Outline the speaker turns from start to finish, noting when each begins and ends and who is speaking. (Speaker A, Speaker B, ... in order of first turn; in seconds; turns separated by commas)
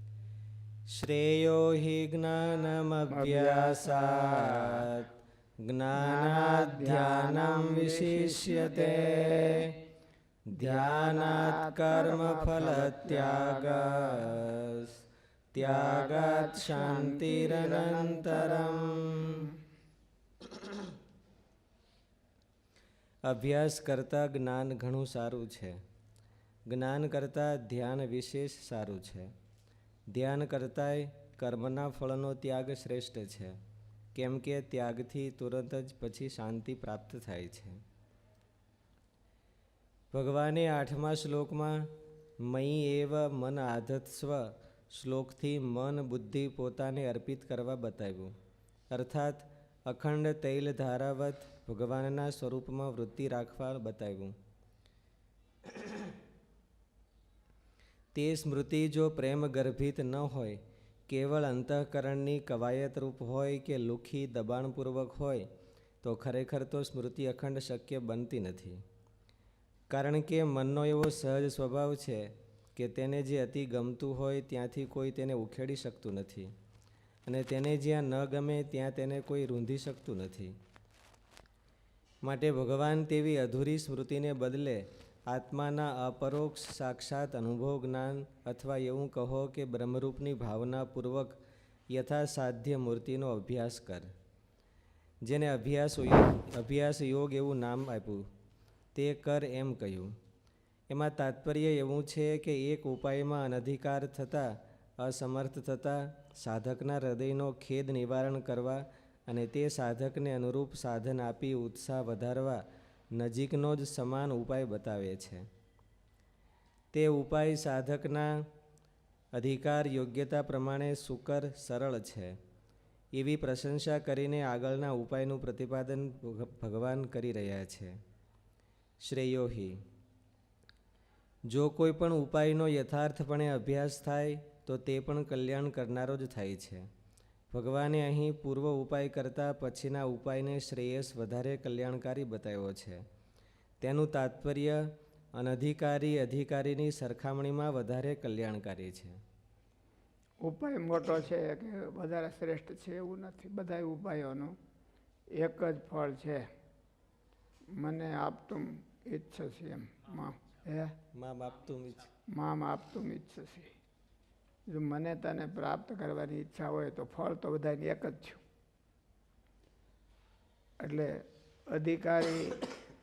Speaker A: 0.9-5.1, Speaker B: 3.1-4.9, Speaker A: 5.6-9.8, Speaker B: 5.9-9.7, Speaker A: 10.5-14.9, Speaker B: 10.6-14.3, Speaker A: 15.5-19.5, Speaker B: 15.6-19.5, Speaker A: 23.2-25.8, Speaker A: 26.7-29.3, Speaker A: 30.1-33.6, Speaker A: 34.1-37.8, Speaker A: 40.1-41.9, Speaker A: 42.4-48.3, Speaker A: 48.9-54.3, Speaker A: 55.7-56.0, Speaker A: 58.1-65.5, Speaker A: 66.0-68.8, Speaker A: 69.9-76.5, Speaker A: 77.3-80.5, Speaker A: 82.2-91.4, Speaker A: 91.9-94.1, Speaker A: 95.2-98.2, Speaker A: 98.9-100.1, Speaker A: 100.9-112.6, Speaker A: 113.2-115.5, Speaker A: 116.9-118.3, Speaker A: 119.3-122.4, Speaker A: 123.1-127.9, Speaker A: 129.0-129.8, Speaker A: 131.5-136.9, Speaker A: 137.5-143.0, Speaker A: 143.8-144.8, Speaker A: 145.3-149.2, Speaker B: 150.4-154.6, Speaker B: 155.3-156.5, Speaker B: 157.7-160.9, Speaker A: 161.1-162.1, Speaker B: 162.3-163.7, Speaker B: 164.7-168.4, Speaker B: 170.8-172.7